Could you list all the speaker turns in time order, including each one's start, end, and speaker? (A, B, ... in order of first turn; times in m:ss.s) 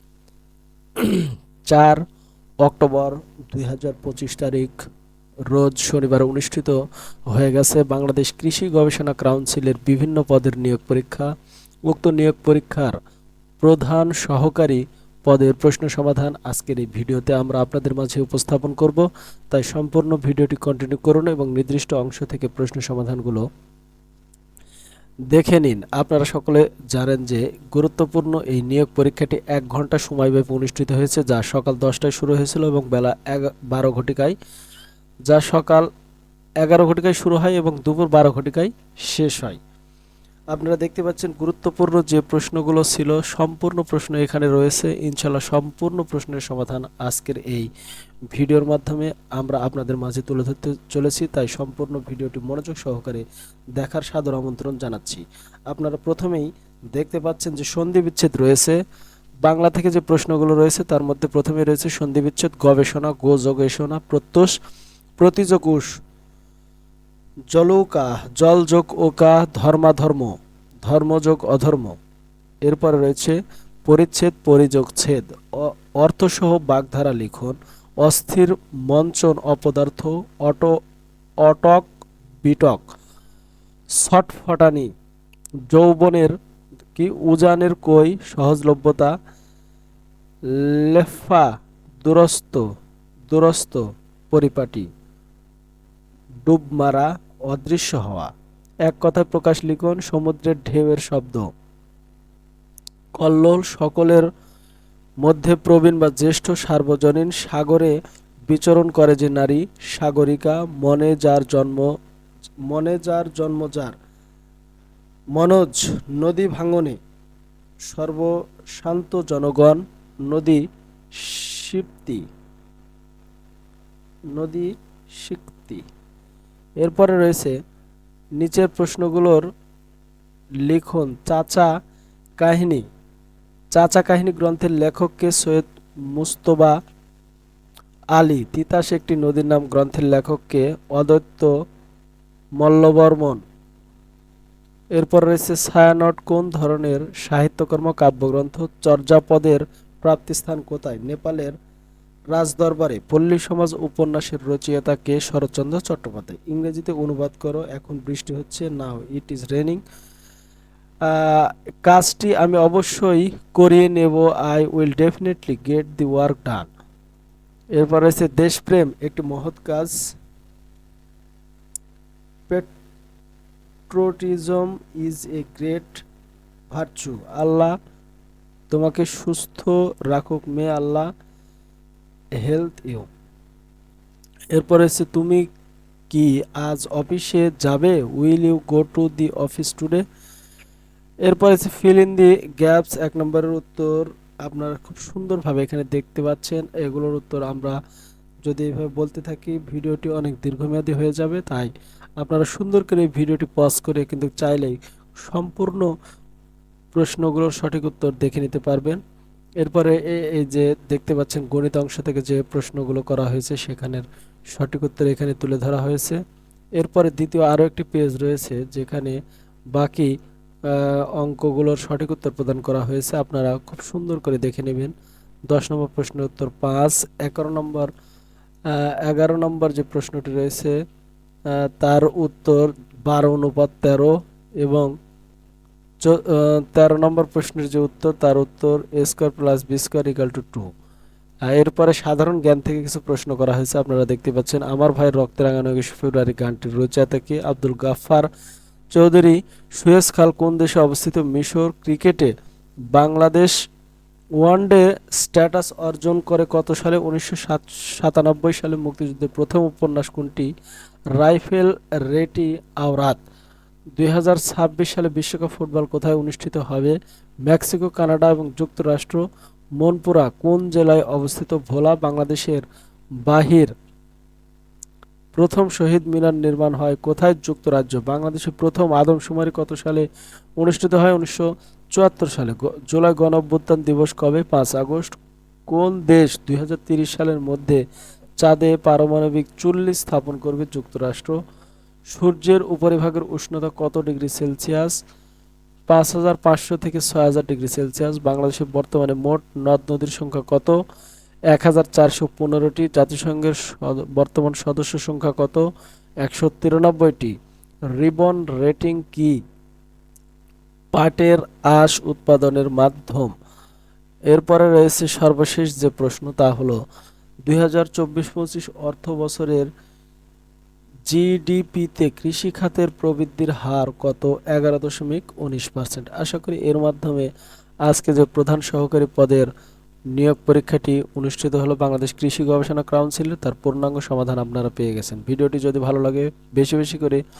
0:01.0-0:02.0 A
0:02.6-0:04.8 A
0:05.5-0:11.3 A
0:11.9-0:13.0 A
0:13.6-0:23.5 A
0:25.3-0:34.4 A
0:35.3-0:35.9 A
0:36.6-0:39.6 A
0:40.5-0:47.7 A
0:48.3-0:53.2 A
0:53.8-0:58.8 A
0:59.4-1:04.5 A
1:05.2-1:05.9 A
1:07.5-1:12.0 A
1:12.6-1:20.8 A
1:21.4-1:21.9 A
1:22.4-1:22.9 A
1:23.9-1:24.9 A
1:25.7-1:26.4 A
1:26.9-1:29.1 A
1:30.5-1:31.5 A
1:32.0-1:32.6 A
1:33.3-1:34.9 A
1:36.4-1:38.3 A
1:38.9-1:41.5 A
1:43.2-1:44.3 A
1:45.2-1:48.0 A
1:48.5-1:51.9 A
1:52.7-1:53.9 A
1:55.4-1:57.0 A
1:57.9-2:00.6 A
2:01.1-2:02.2 A
2:04.3-2:05.8 A
2:06.8-2:07.6 A
2:08.4-2:09.4 A
2:10.6-2:11.7 A
2:12.4-2:12.8 A
2:13.7-2:16.8 A
2:18.1-2:21.5 A
2:22.6-2:23.4 A
2:24.9-2:31.5 A
2:32.3-2:39.8 A
2:41.0-2:46.7 A
2:47.8-2:50.0 A
2:53.9-2:56.0 A
2:56.7-2:57.8 A
2:58.7-3:01.1 A
3:02.4-3:03.1 A
3:04.5-3:05.4 A
3:06.1-3:10.0 A
3:11.2-3:17.8 A
3:18.4-3:25.9 A
3:26.9-3:29.0 A
3:29.6-3:36.2 A
3:36.8-3:39.2 A
3:39.7-3:40.1 A
3:40.6-3:44.9 A
3:45.5-3:47.9 A
3:48.6-3:50.8 A
3:51.5-3:54.9 A
3:56.0-4:00.7 A
4:01.5-4:08.3 A
4:08.9-4:12.3 A
4:12.9-4:13.5 A
4:14.4-4:20.5 A
4:21.1-4:23.2 A
4:24.0-4:29.2 A
4:29.8-4:32.6 A
4:33.2-4:33.7 A
4:35.3-4:40.1 A
4:40.6-4:45.2 A
4:45.7-4:47.8 A
4:48.4-4:51.4 A
4:52.0-4:55.0 A
4:55.9-5:00.8 A
5:01.5-5:05.7 A
5:06.2-5:07.4 A
5:07.9-5:09.4 A
5:10.9-5:13.3 A
5:14.3-5:16.8 A
5:17.4-5:19.7 A
5:21.1-5:27.3 A
5:27.8-5:29.5 A
5:30.1-5:37.2 A